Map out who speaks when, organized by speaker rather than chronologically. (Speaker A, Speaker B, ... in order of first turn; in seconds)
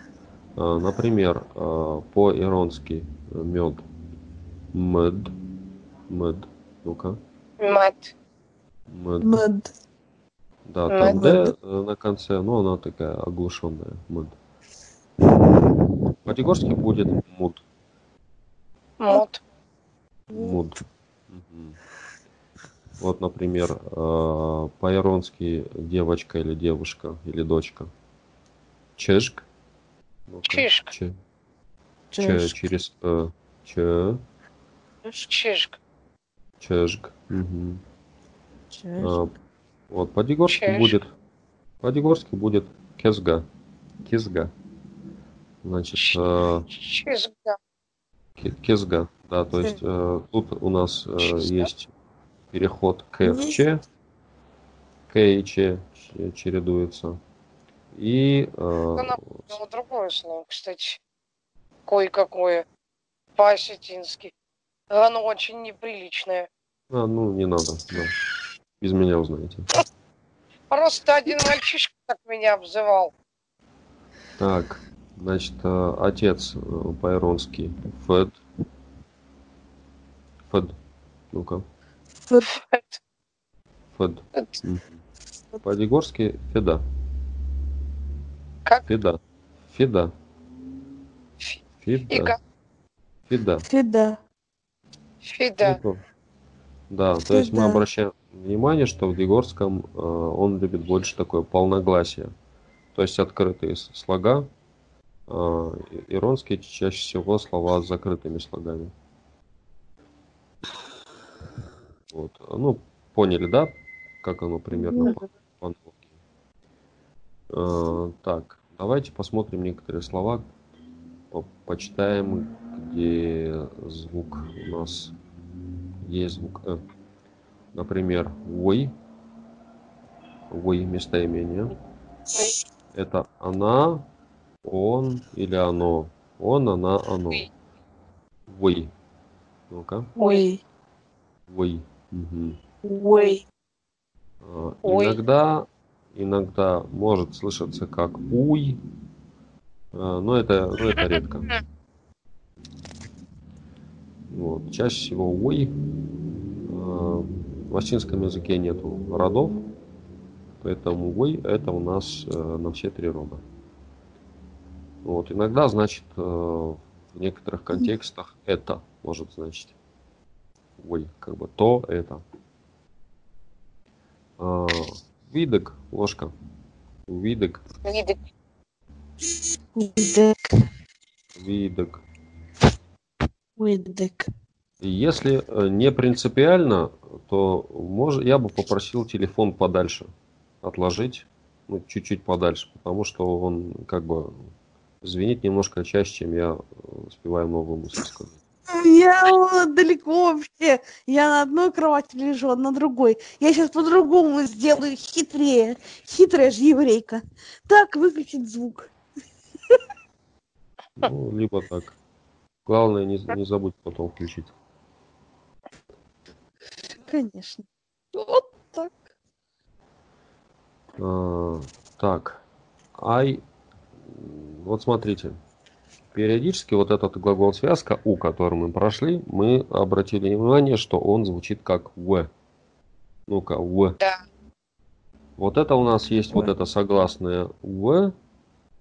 Speaker A: 0.6-3.8, 4.7-5.3, 6.1-7.2, 8.9-9.4, 10.7-14.4, 16.3-17.6, 20.3-21.8, 23.0-27.9, 29.0-29.4, 30.3-31.2, 32.2-34.2, 36.6-37.8, 39.0-39.3, 39.9-41.1, 41.8-43.5, 44.0-44.5, 45.6-46.7, 48.4-51.9, 52.5-53.8, 55.1-57.2, 57.9-59.6, 66.9-68.2, 68.8-69.7, 74.4-78.4, 80.5-80.8, 81.3-81.6, 84.0-85.0, 85.6-86.8, 88.9-89.2, 89.7-90.1, 91.8-92.4, 93.3-93.7, 95.6-96.0, 96.9-102.3, 102.9-104.5, 105.3-108.9, 112.1-116.0, 117.5-120.5, 121.3-125.2, 126.0-126.8, 127.7-128.9, 130.5-131.7, 132.9-134.0, 134.6-137.5, 138.5-138.9, 139.7-140.1, 141.5-142.6, 144.4-148.8, 149.9-151.5, 154.3-155.7, 156.7-159.6, 160.6-163.4, 165.0-169.8, 170.8-172.2, 174.4-176.3, 177.1-177.6, 181.4-182.0, 184.8-190.1, 190.6-194.5, 195.0-198.4, 211.0-212.0, 212.7-214.5, 221.0-222.4, 223.0-223.4, 224.0-225.4, 226.1-232.3, 233.3-234.0, 235.4-238.1
Speaker B: 7.6-8.1, 10.9-11.3, 19.0-19.4, 30.5-30.9, 35.3-35.8, 40.5-41.0, 46.7-47.6, 51.2-51.7, 59.0-61.0, 61.9-62.6, 63.4-64.3, 64.9-66.5, 70.7-73.1, 82.5-83.0, 91.4-92.4, 95.2-95.8, 140.2-140.5, 144.8-145.2, 151.0-151.6, 177.8-178.2
Speaker C: 9.2-9.7, 11.1-11.5, 20.3-20.6, 32.1-32.6, 38.7-39.3, 53.2-53.6, 93.7-94.2, 97.3-97.8, 114.7-115.2, 140.2-140.6, 142.8-143.4, 179.8-180.4, 183.6-184.3, 198.7-208.9, 217.0-219.0